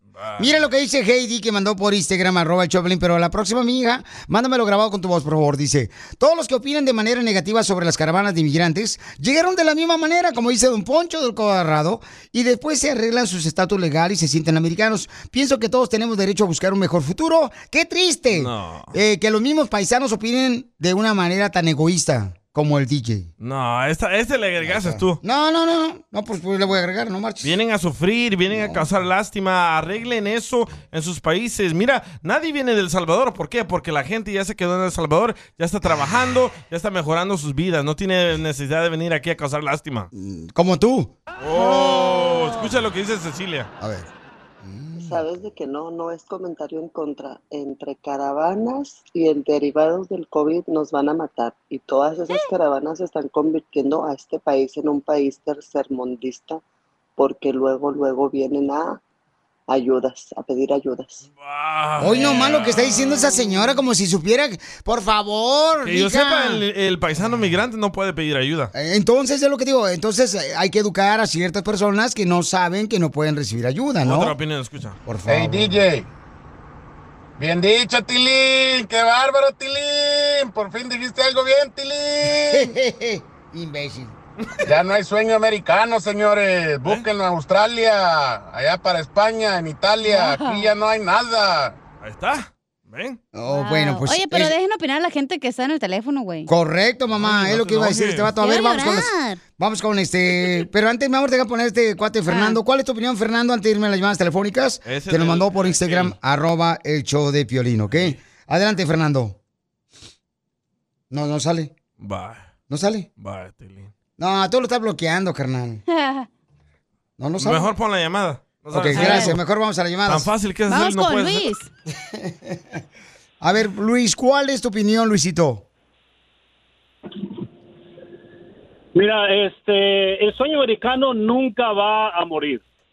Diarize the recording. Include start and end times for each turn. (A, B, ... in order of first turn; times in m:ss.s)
0:00.2-0:00.6 A
0:00.4-0:23.3 B
0:18.3-0:18.9 A
0:23.4-0:25.2 A
0:24.6-0:27.5 B
0:27.4-0:40.1 A
0:28.5-0:28.8 B
0:40.1-0:41.1 B
0:41.4-0:43.7 A
0:41.6-0:42.7 C
0:43.8-0:44.1 B
0:44.6-0:45.3 B
0:45.0-0:56.6 D
0:57.2-0:59.0 D
0:59.7-1:01.3 D
1:01.4-1:03.2 A
1:02.0-1:06.6 B
1:05.8-1:08.7 A
1:08.7-1:14.4 B
1:14.0-1:15.0 A
1:15.0-1:15.8 B
1:15.3-1:16.1 E
1:17.4-1:22.7 E
1:22.2-1:24.2 B
1:24.7-1:31.8 E
1:30.1-1:30.7 C
1:32.0-1:33.2 A
1:33.3-1:34.5 B
1:33.5-1:36.5 C
1:36.5-1:49.4 B
1:37.2-1:38.3 A
1:38.4-1:39.4 C
1:42.3-1:42.6 C
1:44.8-1:46.2 A
1:47.9-1:48.2 A
1:51.1-1:51.7 B
1:52.0-1:52.4 A
1:52.7-1:53.1 B
1:53.2-1:53.9 A
1:54.2-1:55.8 B
1:55.9-1:56.3 C
1:57.2-1:57.7 B
1:57.4-1:59.4 A
1:58.7-2:00.3 B
1:58.9-1:59.3 C
2:00.1-2:01.5 A
2:00.7-2:01.7 C
2:03.4-2:05.6 B
2:09.0-2:12.6 F